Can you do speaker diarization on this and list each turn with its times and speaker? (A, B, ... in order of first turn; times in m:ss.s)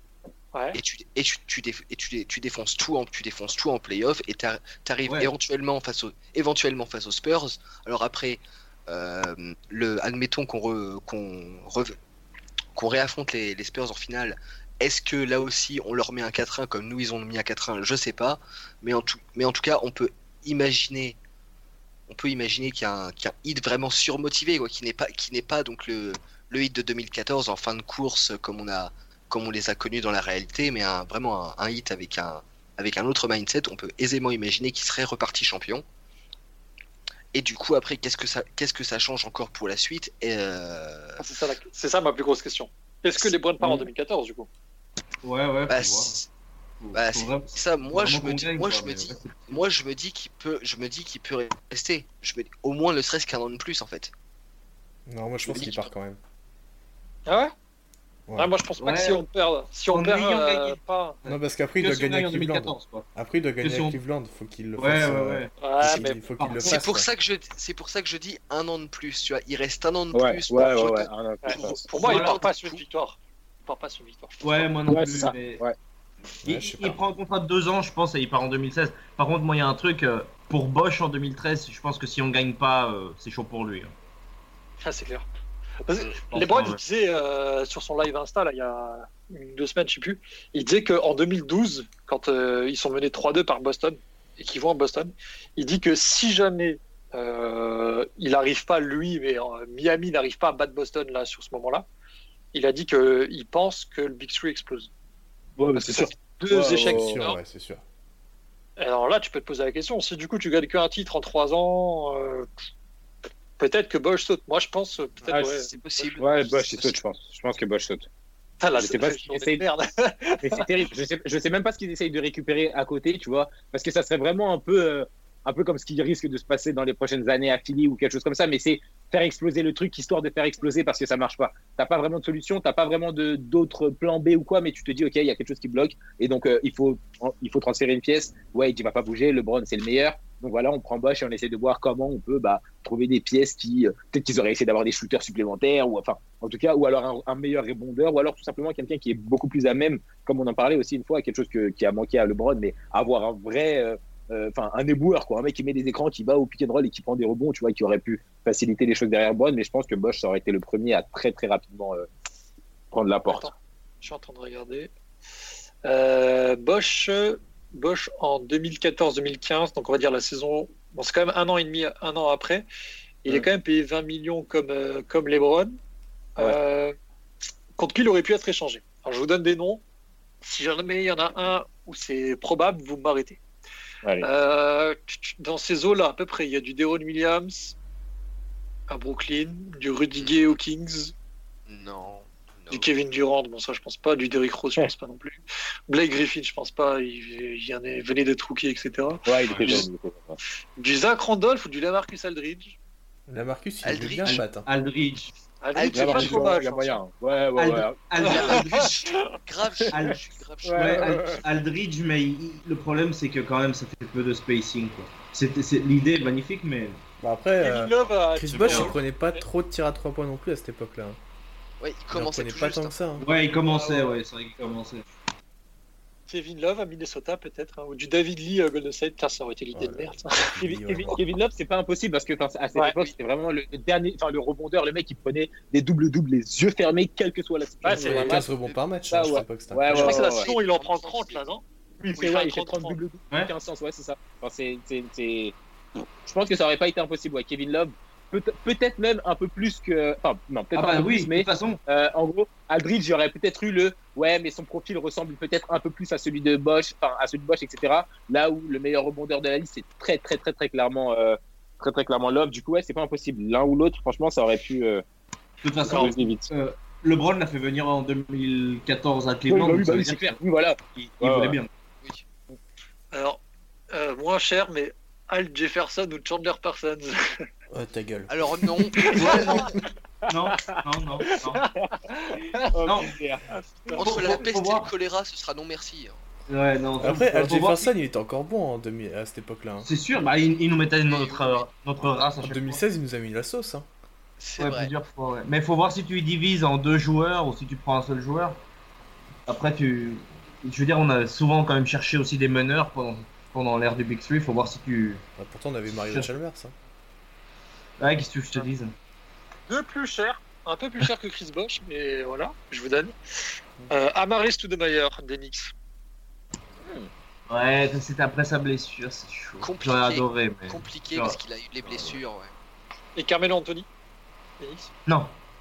0:00.5-0:00.8 A
0:00.8-0:12.0 B
0:12.8-0:21.2 B
0:22.1-0:35.8 B
0:37.3-0:41.2 B
0:41.2-0:44.5 A
0:45.2-0:46.2 C
0:45.7-0:46.3 B
0:46.8-0:49.6 C
0:46.9-0:54.1 B
0:55.1-0:56.2 D
0:55.4-0:55.9 B
0:57.3-0:57.5 A
0:58.4-1:01.2 A
0:58.8-0:59.3 C
0:59.9-1:03.1 C
1:01.3-1:07.1 D
1:03.6-1:04.0 C
1:04.8-1:05.5 C
1:05.6-1:06.2 A
1:06.4-1:06.8 C
1:06.6-1:12.8 B
1:10.1-1:11.9 E
1:11.4-1:14.6 A
1:12.0-1:12.4 C
1:14.4-1:15.6 C
1:14.9-1:15.8 E
1:16.4-1:17.0 D
1:16.4-1:23.9 C
1:24.8-1:25.3 A
1:25.8-1:41.9 A
1:26.3-1:26.8 C
1:42.5-1:44.9 A
1:45.6-1:47.2 E
1:45.8-1:47.4 A
1:46.7-1:47.8 D
1:48.8-1:52.5 A
1:53.6-1:56.2 A
1:55.2-1:57.0 B
1:56.2-1:58.1 E
1:58.6-2:00.8 A
1:58.8-1:59.7 E
2:00.4-2:42.1 E
2:42.9-2:43.5 E
2:43.3-2:44.9 A
2:45.8-2:52.7 A
2:53.2-2:55.8 A
2:56.4-2:57.0 A
2:57.8-2:59.8 A
3:00.4-3:03.4 A
3:04.2-3:07.8 A
3:08.9-3:11.1 A
3:10.2-3:10.6 B
3:11.7-3:12.9 B
3:12.7-3:19.9 A
3:19.3-3:20.4 E
3:19.5-3:19.9 C
3:20.8-3:22.8 A
3:23.3-3:24.7 D
3:23.8-3:24.4 B
3:24.2-3:25.3 C
3:25.6-3:27.0 A
3:25.8-3:26.6 B
3:25.9-3:28.0 E
3:26.1-3:26.4 C
3:27.6-3:28.9 C
3:28.2-3:29.4 A
3:28.2-3:31.4 B
3:29.9-3:30.2 C
3:30.6-3:31.4 E
3:30.8-3:37.0 C
3:37.2-3:41.2 D
3:37.6-3:39.4 A
3:38.6-3:38.9 C
3:38.6-3:38.9 B
3:41.8-3:43.0 B
3:42.1-3:43.3 D
3:43.2-3:45.0 C
3:43.7-3:44.1 A
3:46.3-3:50.5 A
3:49.7-3:51.2 D
3:50.6-3:58.4 E
3:52.8-3:53.0 A
3:57.8-3:58.4 A
3:58.0-4:00.2 D
3:58.5-3:58.9 B
3:59.1-4:00.5 E
3:59.9-4:03.0 A
4:00.0-4:01.5 B
4:02.0-4:05.6 E
4:06.2-4:25.0 E
4:10.7-4:11.8 C
4:25.6-4:30.4 C
4:25.8-4:26.5 E
4:25.9-4:26.2 A
4:29.5-4:31.6 E
4:31.2-4:31.7 C
4:33.1-4:37.5 A
4:37.7-4:38.3 D
4:38.3-4:39.8 B
4:39.0-4:39.6 A
4:40.3-4:40.8 E
4:40.3-4:41.6 C
4:41.8-4:43.4 E
4:43.5-4:44.4 A
4:43.9-4:46.2 B
4:44.0-4:44.9 C
4:46.5-4:47.9 C
4:47.0-4:49.9 D
4:49.8-4:52.8 C
4:51.0-4:51.7 B
4:52.4-4:53.9 D
4:54.4-4:54.9 B
4:54.6-4:58.6 C
4:59.5-5:05.2 C
5:05.4-5:06.7 D
5:08.0-5:08.9 C
5:09.7-5:13.2 A
5:13.9-5:15.7 A
5:16.8-5:17.1 E
5:17.5-5:22.2 C
5:19.6-5:22.5 B
5:23.2-5:23.9 A
5:24.6-5:24.9 A